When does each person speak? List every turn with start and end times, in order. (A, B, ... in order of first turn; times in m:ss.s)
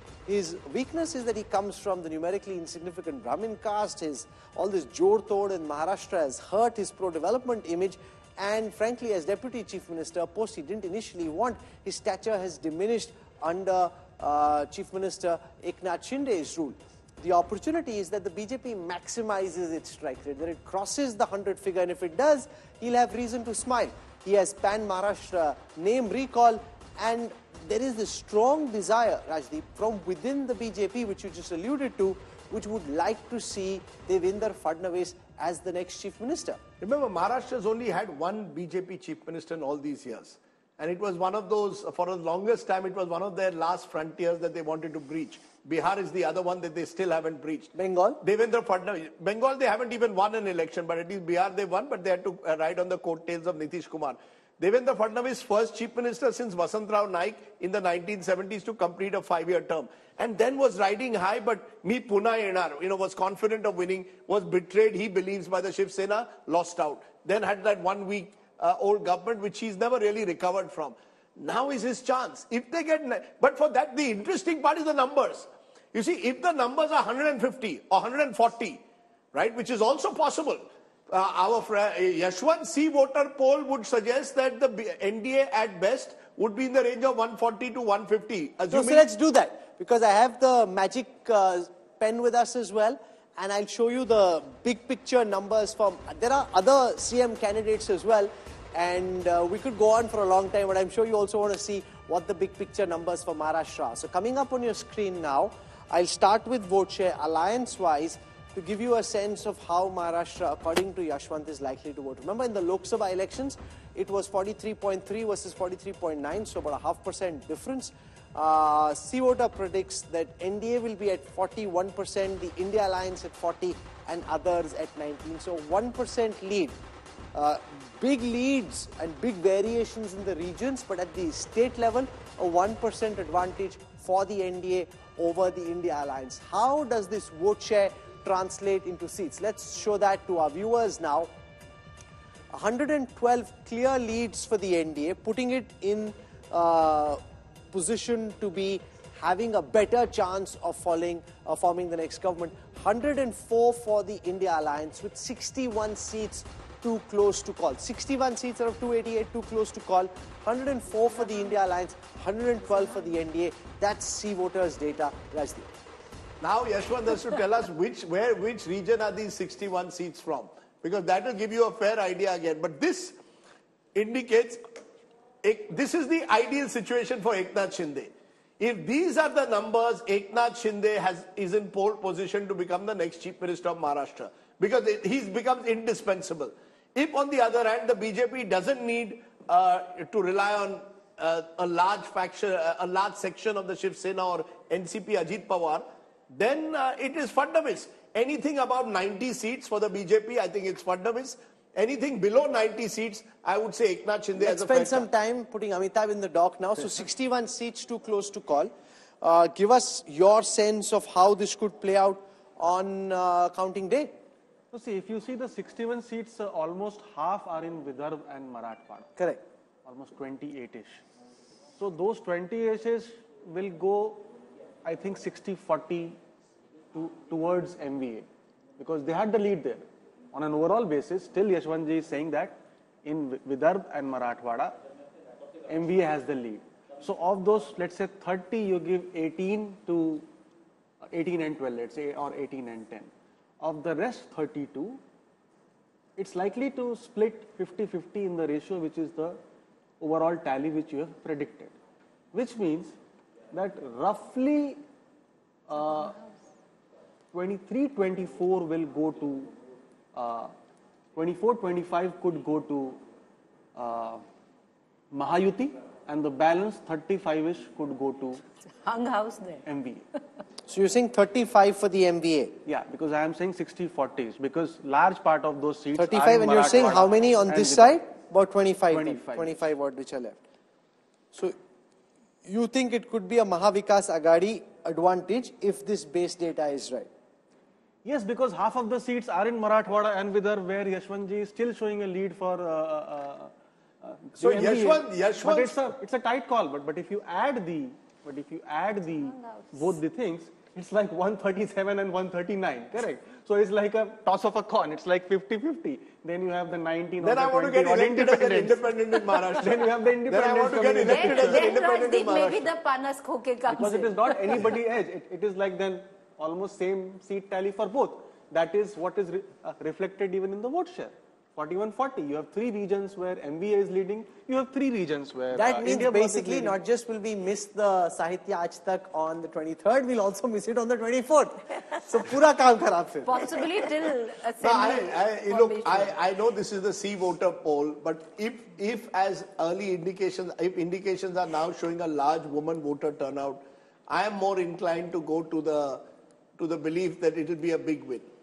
0:00.3-0:36.6 A
0:36.8-1:18.8 B
0:47.7-0:48.2 A
1:19.3-1:29.0 B
1:28.7-2:06.8 A
2:07.3-2:21.3 A
2:22.5-2:27.2 A
2:27.7-2:45.7 A
2:46.4-2:53.2 B
2:53.9-2:54.6 B
2:55.4-3:25.1 B
3:24.4-3:34.1 A
3:34.7-3:39.1 C
3:39.2-3:39.4 A
3:39.8-3:41.0 C
3:41.8-3:44.3 C
3:44.8-3:46.2 C
3:46.9-3:48.2 C
3:48.8-3:54.8 C
3:55.7-4:00.2 C
4:01.1-4:05.0 C
4:06.2-4:09.4 C
4:10.0-4:11.7 C
4:12.3-4:12.9 C
4:13.5-4:14.8 C
4:15.7-4:16.2 C
4:17.3-4:19.5 C
4:20.1-4:20.5 C
4:21.2-4:23.0 C
4:23.7-4:24.2 C
4:25.1-4:28.4 C
4:28.8-4:29.6 D
4:29.6-4:30.0 C
4:30.7-4:32.5 A
4:32.6-4:38.0 C
4:35.9-4:40.4 A
4:38.9-4:39.7 C
4:42.4-4:47.1 A
4:48.0-5:11.8 C
4:54.4-4:55.8 B
4:59.3-4:59.8 D
5:07.2-5:12.7 B
5:11.0-5:14.6 D
5:13.7-5:26.8 C
5:25.5-5:33.4 A
5:33.2-5:36.1 D
5:34.6-5:46.0 B
5:46.6-5:48.3 B